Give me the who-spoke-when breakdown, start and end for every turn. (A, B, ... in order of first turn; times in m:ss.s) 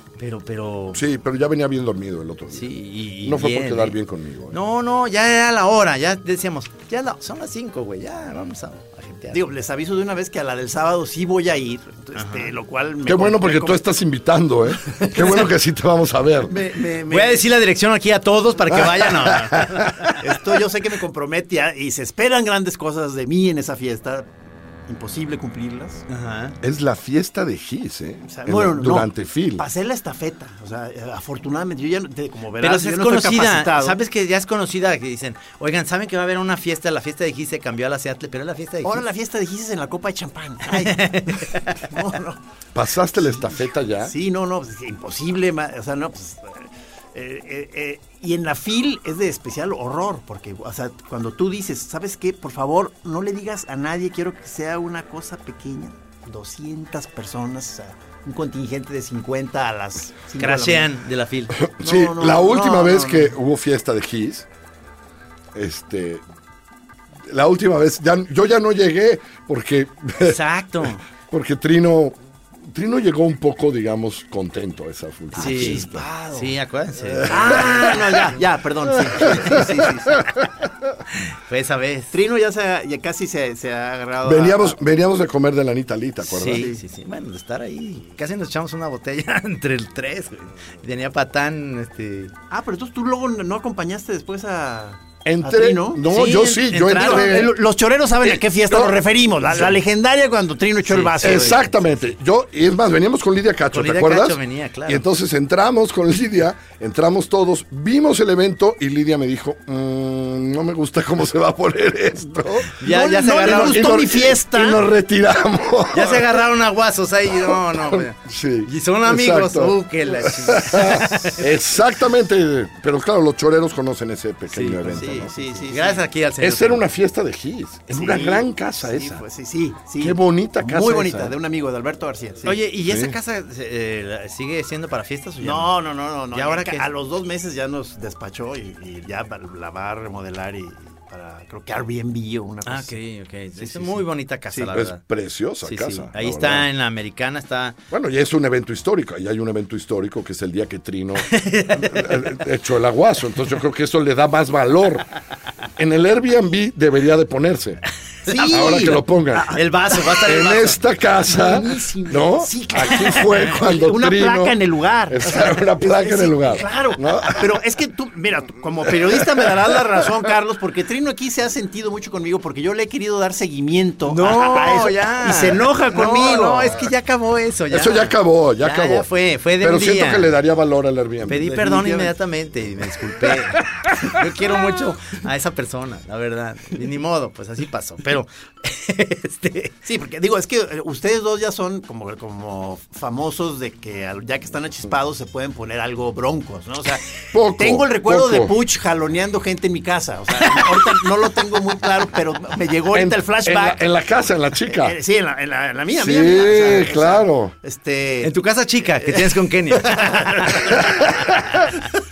0:00.2-0:01.0 A
0:00.9-0:02.7 B
0:02.5-0:04.0 A
0:03.2-0:04.6 B
0:04.5-0:09.4 A
0:09.3-0:13.8 C
0:12.2-0:12.5 A
0:13.0-0:16.5 B
0:16.5-0:17.4 C
0:17.1-0:20.2 A
0:18.7-0:20.0 B
0:20.2-0:24.3 C
0:24.9-0:26.0 C
0:26.1-0:26.6 A
0:26.6-0:29.6 B
0:28.3-0:34.0 C
0:32.6-0:39.0 A
0:38.8-0:42.4 C
0:40.7-0:41.8 A
0:42.7-0:44.1 B
0:43.2-1:00.9 C
1:00.4-1:01.6 A
1:01.6-1:04.5 B
1:01.8-1:03.3 C
1:05.5-1:06.2 B
1:07.2-1:10.4 B
1:10.2-1:11.0 A
1:11.2-1:16.0 B
1:15.3-1:16.5 C
1:15.4-1:17.8 A
1:17.1-1:18.1 B
1:17.2-1:20.2 C
1:19.1-1:20.3 B
1:21.1-1:22.1 A
1:22.1-1:24.8 C
1:24.2-1:26.7 B
1:26.2-1:32.3 A
1:26.5-1:26.8 C
1:32.5-1:36.0 C
1:35.2-1:37.6 B
1:36.0-1:37.5 A
1:36.9-1:41.7 C
1:38.2-1:39.0 B
1:40.8-1:41.9 A
1:41.2-1:56.4 B
1:43.7-1:45.0 A
1:52.8-1:53.9 A
1:52.8-1:54.8 C
1:55.9-2:01.5 A
1:57.3-2:05.3 B
2:04.5-2:06.8 A
2:04.9-2:06.0 C
2:06.4-2:09.2 B
2:07.9-2:12.6 C
2:10.0-2:11.3 B
2:12.4-2:16.9 A
2:12.8-2:13.2 B
2:15.4-2:22.9 C
2:22.6-2:25.0 A
2:23.6-2:24.7 C
2:24.7-2:26.7 B
2:25.6-2:27.8 A
2:27.9-2:35.1 B
2:31.3-2:32.3 A
2:35.8-2:37.8 B
2:38.2-2:39.6 C
2:38.3-2:40.8 A
2:38.5-2:39.6 B
2:40.2-2:47.6 B
2:41.3-2:56.8 C
2:48.9-2:49.5 B
2:54.1-3:00.3 A
2:57.7-2:59.1 B
2:59.6-3:01.5 B
3:01.3-3:09.7 A
3:01.4-3:02.1 C
3:09.8-3:23.8 C
3:17.3-3:18.5 B
3:22.9-3:25.0 B
3:24.6-3:28.3 C
3:25.9-3:27.5 B
3:28.2-3:30.6 A
3:29.0-3:30.8 C
3:30.7-3:31.6 B